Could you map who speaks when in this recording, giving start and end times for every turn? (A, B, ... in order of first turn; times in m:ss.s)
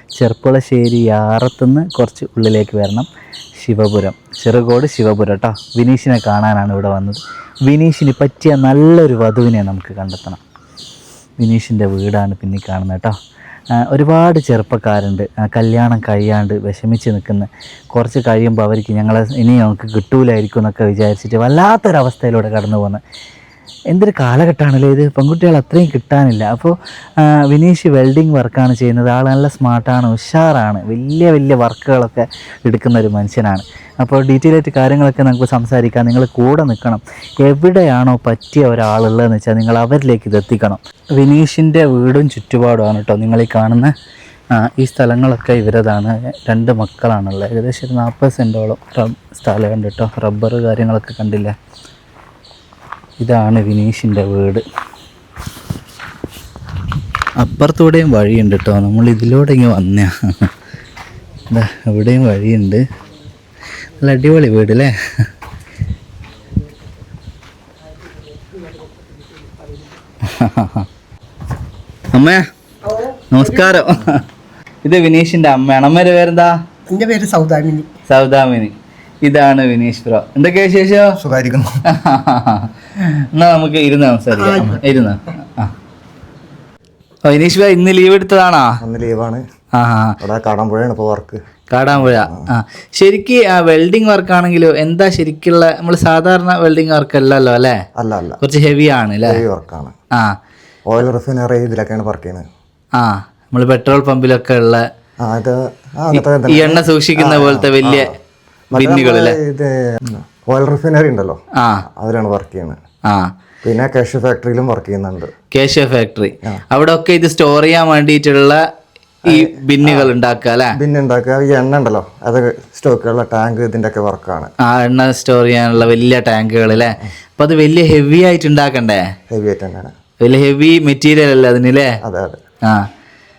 0:00.2-0:03.1 A
0:03.6-0:10.4 A
0:11.4-0:13.1 A
0:13.7-0:23.0 A
0:23.9-0:43.9 A
0:44.5-0:51.5 A
0:53.2-0:54.6 A
0:57.4-1:00.5 A
1:01.5-1:02.8 A
1:04.0-1:04.9 A
1:07.9-1:10.0 B
1:10.2-1:10.8 A
1:12.1-1:12.4 A
1:12.8-1:13.9 B
1:13.3-1:14.2 A
1:14.8-1:16.5 A
1:16.9-1:17.9 B
1:18.1-1:21.2 A
1:21.2-1:21.7 C
1:21.9-1:25.7 A
1:24.3-1:24.8 B
1:27.2-1:28.8 A
1:28.8-1:29.4 C
1:29.7-1:30.2 A
1:30.2-1:31.4 C
1:31.7-1:37.8 A
1:32.0-1:32.5 C
1:38.0-1:38.4 C
1:38.4-1:39.4 A
1:39.2-1:39.9 C
1:40.9-1:42.4 C
1:43.0-1:44.8 A
1:45.2-1:48.1 C
1:46.1-1:48.1 A
1:48.7-1:52.8 C
1:48.7-1:49.4 A
1:51.6-1:51.8 A
1:53.6-1:55.3 C
1:55.5-1:58.6 A
1:59.2-2:00.1 C
1:59.2-2:00.8 A
2:00.7-2:04.5 C
2:04.6-2:09.0 A
2:09.3-2:09.9 C
2:10.2-2:11.9 A
2:12.0-2:12.4 C